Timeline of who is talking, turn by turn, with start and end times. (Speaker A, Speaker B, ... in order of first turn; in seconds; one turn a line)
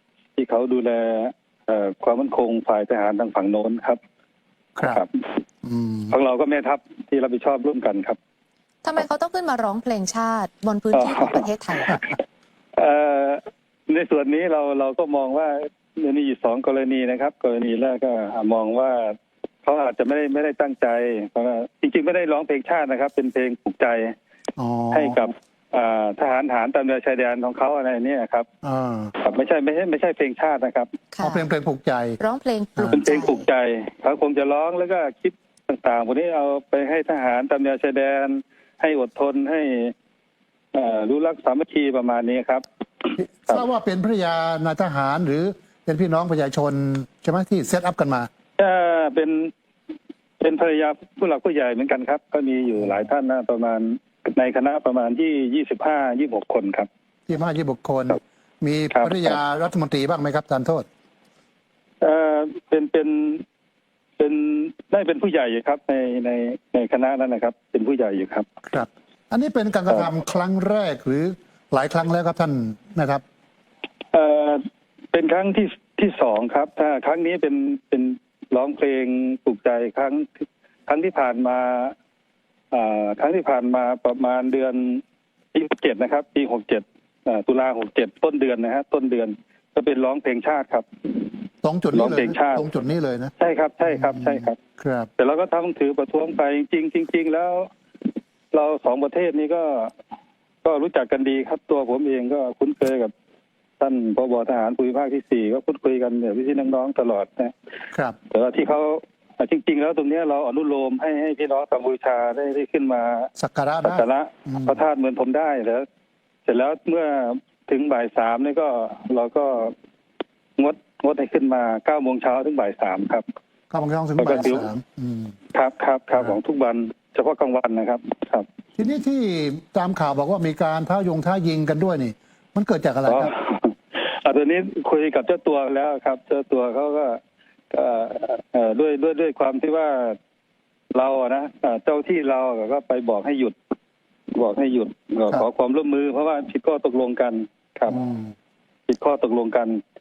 Speaker A: 0.4-4.0
Speaker B: 4.8-5.0
Speaker A: 4.8-5.1
Speaker B: 5.6-6.1
Speaker A: 6.1-8.2
Speaker C: 8.8-12.0
Speaker A: 10.9-12.2
Speaker A: 12.7-24.1
Speaker B: 24.6-25.2
Speaker A: 24.9-28.5
Speaker B: 28.6-29.1
Speaker A: 29.2-31.0
Speaker C: 31.1-31.5
Speaker B: 31.2-32.2
Speaker C: 32.2-33.4
Speaker B: 32.8-33.0
Speaker A: 32.9-39.9
Speaker A: 40.7-43.6
Speaker B: 43.2-48.3
Speaker A: 48.6-49.5
Speaker A: 50.4-56.9
Speaker B: 57.3-60.9
Speaker A: 58.9-59.3
Speaker A: 62.0-63.4
Speaker A: 64.2-68.5
Speaker B: 68.7-73.2
Speaker A: 74.1-81.9
Speaker A: 82.7-85.0
Speaker A: 85.5-91.2
Speaker B: 91.6-93.3
Speaker A: 91.9-92.7
Speaker A: 93.4-94.6
Speaker B: 93.8-95.1
Speaker A: 95.2-97.7
Speaker A: 98.5-99.9
Speaker A: 100.6-103.1
Speaker A: 103.8-107.5
Speaker B: 107.9-108.2
Speaker A: 108.3-113.3
Speaker B: 113.4-114.8
Speaker A: 113.8-115.8
Speaker A: 116.5-119.7
Speaker A: 120.6-123.2
Speaker B: 123.7-125.3
Speaker A: 124.2-124.7
Speaker A: 125.5-128.4
Speaker B: 128.8-133.3
Speaker A: 133.1-137.2
Speaker A: 137.7-140.2
Speaker A: 140.9-143.6
Speaker A: 144.3-148.0
Speaker B: 147.9-148.3
Speaker A: 148.9-149.8